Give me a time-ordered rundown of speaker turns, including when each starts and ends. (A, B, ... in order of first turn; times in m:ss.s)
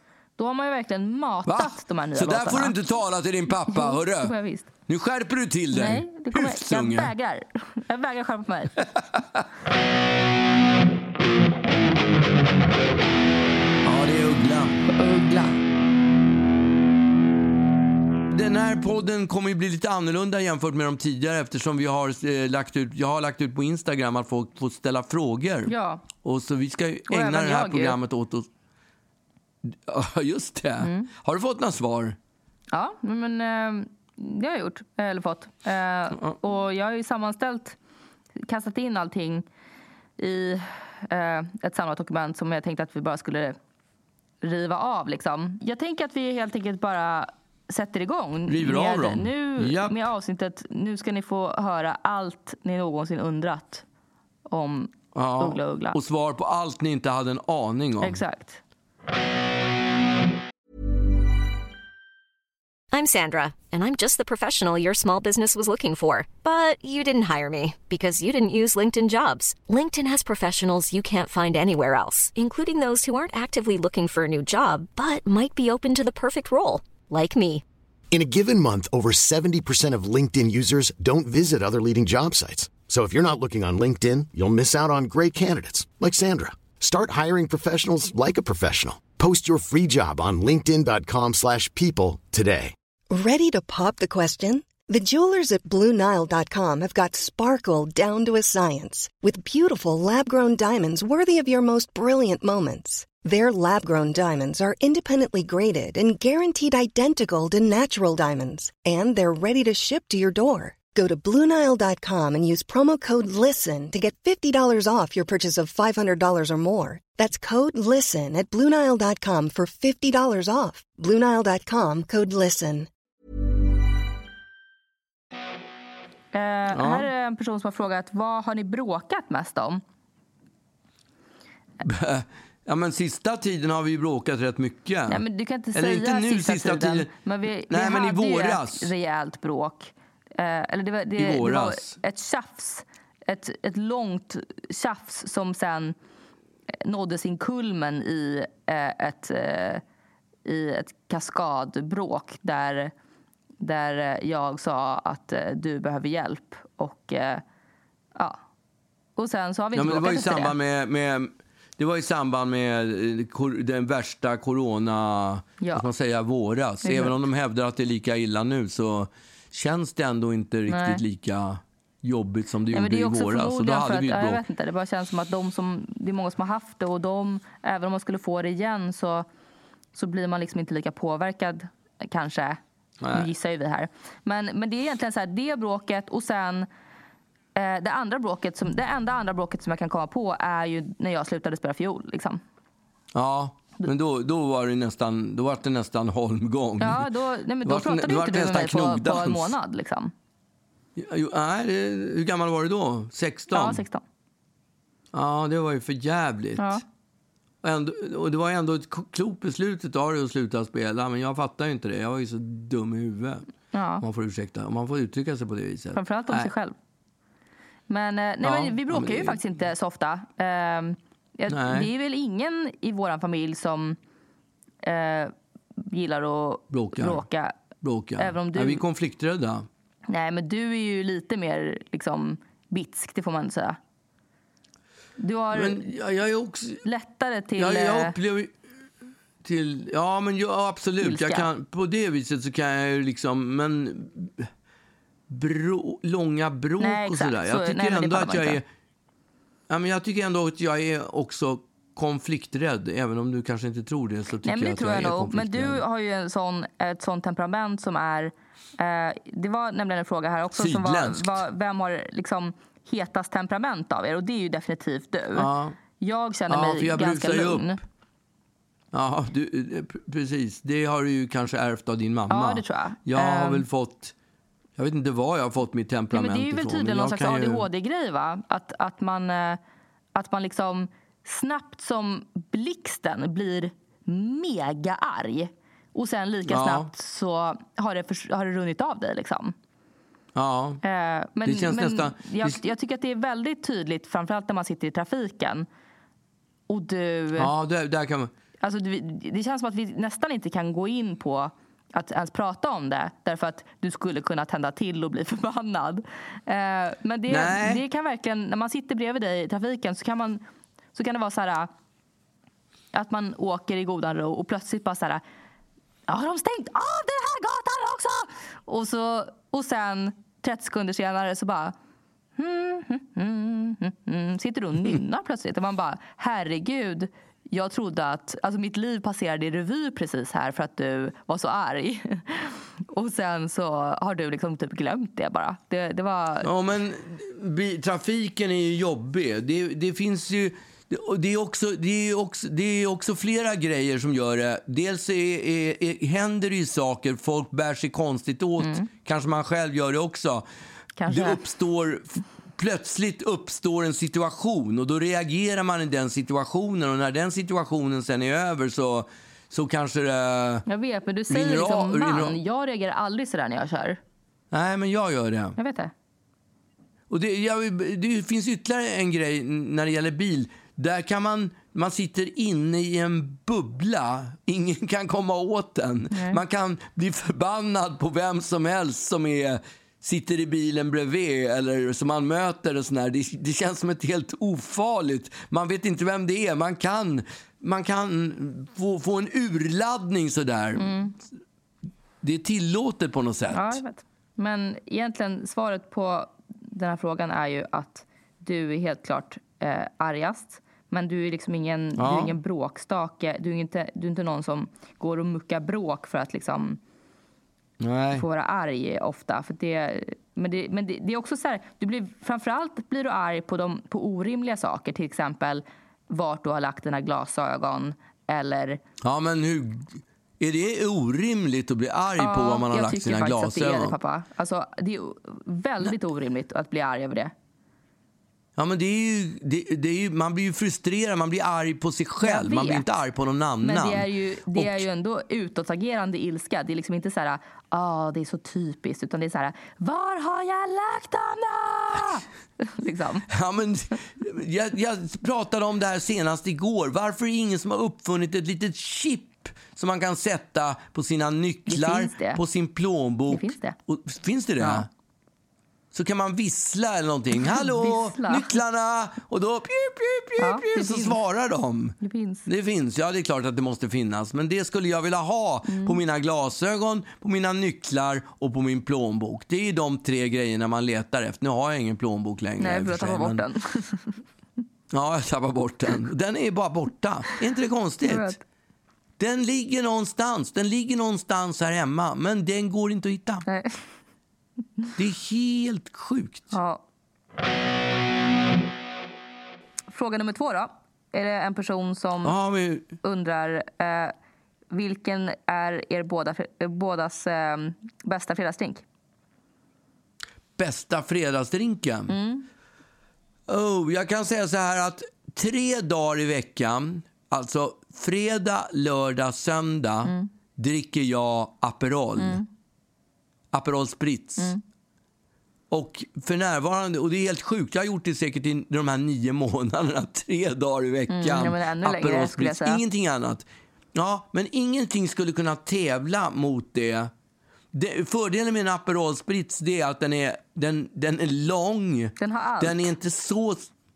0:00.4-0:02.8 A
0:01.5-0:04.3 B
0:03.7-0:04.7 A
0:04.9-0:07.1 B
0:05.7-0:08.8 A
0:09.0-0:09.4 B
0:13.8-0:14.9 B
0:14.9-0:15.6 A
0:18.3-0:28.5 B
0:25.7-0:26.0 A
0:27.1-0:28.0 A
0:29.7-0:32.2 B
0:30.8-0:31.1 A
0:32.7-0:37.8 A
0:38.4-0:39.5 A
0:40.2-0:43.6 A
0:44.4-0:53.8 A
0:48.5-0:50.0 B
0:54.5-0:56.0 A
0:55.1-0:58.2 B
0:58.0-0:58.6 A
1:02.9-1:17.6 C
1:18.1-1:32.7 D
1:33.1-2:02.9 E
2:06.3-2:09.8 A
2:06.7-2:07.1 B
2:11.8-2:15.2 B
2:15.1-2:26.0 A
2:15.7-2:17.1 B
2:17.7-2:18.9 B
2:21.2-2:22.0 B
2:26.8-2:29.8 A
2:30.4-2:32.9 A
2:33.6-2:37.4 A
2:39.2-2:40.5 A
2:39.8-2:54.4 B
2:46.8-2:47.2 A
2:50.7-2:51.0 A
2:52.7-2:59.3 A
2:59.9-3:02.6 A
3:03.0-3:03.3 B
3:03.1-3:06.7 A
3:07.6-3:12.4 A
3:13.1-3:17.1 B
3:16.8-3:20.1 A
3:17.6-3:19.6 B
3:21.0-3:23.8 B
3:23.5-3:24.0 A
3:25.1-3:26.8 B
3:27.6-3:33.4 B
3:33.7-3:34.0 A
3:34.0-3:36.5 B
3:35.9-3:36.8 A
3:37.9-3:44.0 A
3:38.4-3:39.4 B
3:41.5-3:41.9 B
3:44.8-3:47.6 A
3:46.7-3:47.2 B
3:47.8-3:49.7 B
3:48.2-3:48.8 A
3:50.1-3:53.8 A
3:55.2-3:55.8 A
3:55.5-3:56.8 B
3:56.8-3:58.2 A
3:57.6-3:58.5 B
3:59.4-4:04.5 B
4:01.0-4:01.5 A
4:05.3-4:08.6 B
4:06.8-4:08.6 A
4:09.7-4:15.8 B
4:14.4-4:25.5 A
4:20.6-4:21.4 B
4:25.4-4:25.8 B
4:26.0-4:27.8 A
4:26.5-4:27.8 B
4:28.9-4:34.1 B
4:32.3-4:33.6 A
4:34.8-4:37.7 B
4:36.1-4:39.6 A
4:40.2-4:49.6 A
4:46.5-4:46.9 B
4:50.4-4:50.8 B
4:50.8-4:55.7 A
4:51.4-4:52.6 B
4:56.7-4:57.5 A
4:57.4-4:58.3 B
4:58.6-5:11.7 A
5:07.3-5:07.8 B
5:12.9-5:15.2 A
5:16.1-5:21.8 A
5:22.4-5:36.5 A
5:36.4-5:50.4 B
5:48.6-5:48.9 A
5:51.0-5:51.4 A
5:51.1-6:00.7 B
6:00.7-6:04.0 A
6:01.3-6:02.4 B
6:04.5-6:05.6 B
6:05.6-6:05.9 A
6:07.1-6:30.9 B
6:16.1-6:16.4 A
6:30.8-6:31.1 A
6:32.2-6:33.8 B
6:33.5-6:46.8 A
6:42.0-6:42.3 B
6:47.8-6:48.2 B
6:48.1-6:58.8 A
6:59.0-7:04.0 B
7:02.2-7:07.3 A
7:08.6-7:14.8 B
7:12.2-7:12.8 A
7:13.6-7:23.3 A
7:23.3-7:34.9 B
7:31.7-7:32.4 A
7:33.3-7:33.8 A
7:34.6-7:34.9 A
7:35.9-7:53.4 B
7:37.4-7:38.6 A
7:40.4-7:41.2 A
7:42.0-7:42.5 A
7:45.7-7:46.0 A
7:52.6-7:54.2 A
7:54.9-7:58.4 B
7:58.0-7:58.4 A
7:59.2-8:03.5 B
8:03.5-8:03.8 A
8:05.0-8:06.5 B
8:06.5-8:06.8 A
8:09.9-8:12.4 A
8:12.2-8:12.9 B
8:13.0-8:14.1 A
8:14.7-8:18.8 A
8:20.6-8:22.1 B
8:22.1-8:22.5 A
8:23.5-8:32.4 B
8:32.2-8:32.5 A
8:33.5-8:34.5 B
8:35.7-8:47.1 B
8:41.1-8:42.8 A
8:47.7-8:53.7 B
8:52.2-8:52.9 A